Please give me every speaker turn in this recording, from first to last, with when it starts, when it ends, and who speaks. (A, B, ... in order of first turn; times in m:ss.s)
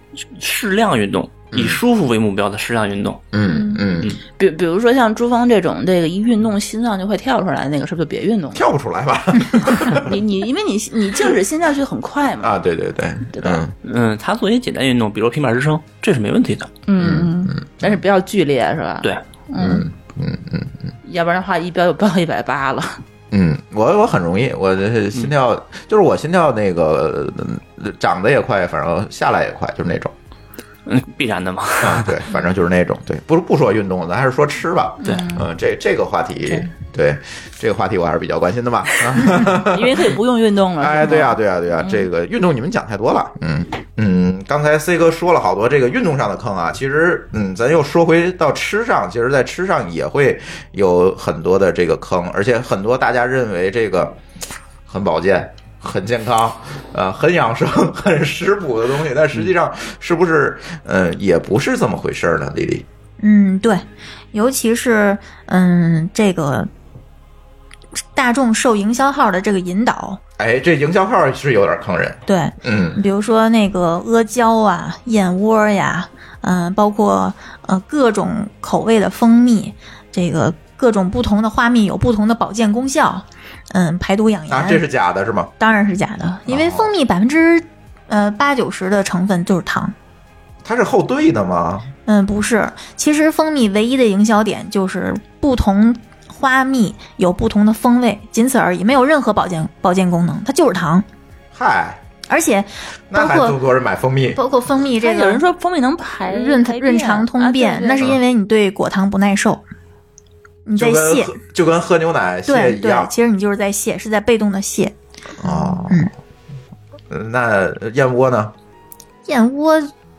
0:00.4-0:03.3 A
0:01.5-0:01.8 B
0:03.3-0:04.1 B
0:03.5-0:03.8 C
0:04.4-0:08.6 C
0:08.5-0:10.1 B
0:09.9-0:12.5 C
0:12.4-0:13.7 B
0:13.3-0:13.6 C
0:13.8-0:16.7 A
0:16.9-0:19.8 C
0:17.0-0:18.0 B
0:19.6-0:20.9 B
0:21.0-0:23.0 C
0:23.3-0:30.1 B
0:30.8-0:32.2 A
0:31.8-0:40.1 B
0:35.0-0:35.4 C
0:39.6-0:42.0 C
0:40.8-0:54.2 B
0:54.9-1:02.8 B
1:03.2-1:06.7 D
1:08.1-1:10.2 D
1:10.4-1:13.0 B
1:12.3-1:24.8 D
1:24.5-1:25.5 B
1:25.6-1:29.9 D
1:26.5-1:26.9 B
1:30.6-1:31.9 B
1:32.1-1:41.0 D
1:41.5-1:42.0 B
1:42.3-1:43.6 D
1:43.1-1:44.4 B
1:44.3-1:45.4 D
1:45.0-1:48.1 C
1:46.3-1:49.6 D
1:50.6-1:51.4 D
1:50.8-1:53.1 B
1:52.5-1:56.1 D
1:55.4-1:56.1 B
1:57.1-1:58.5 B
1:59.3-1:59.9 D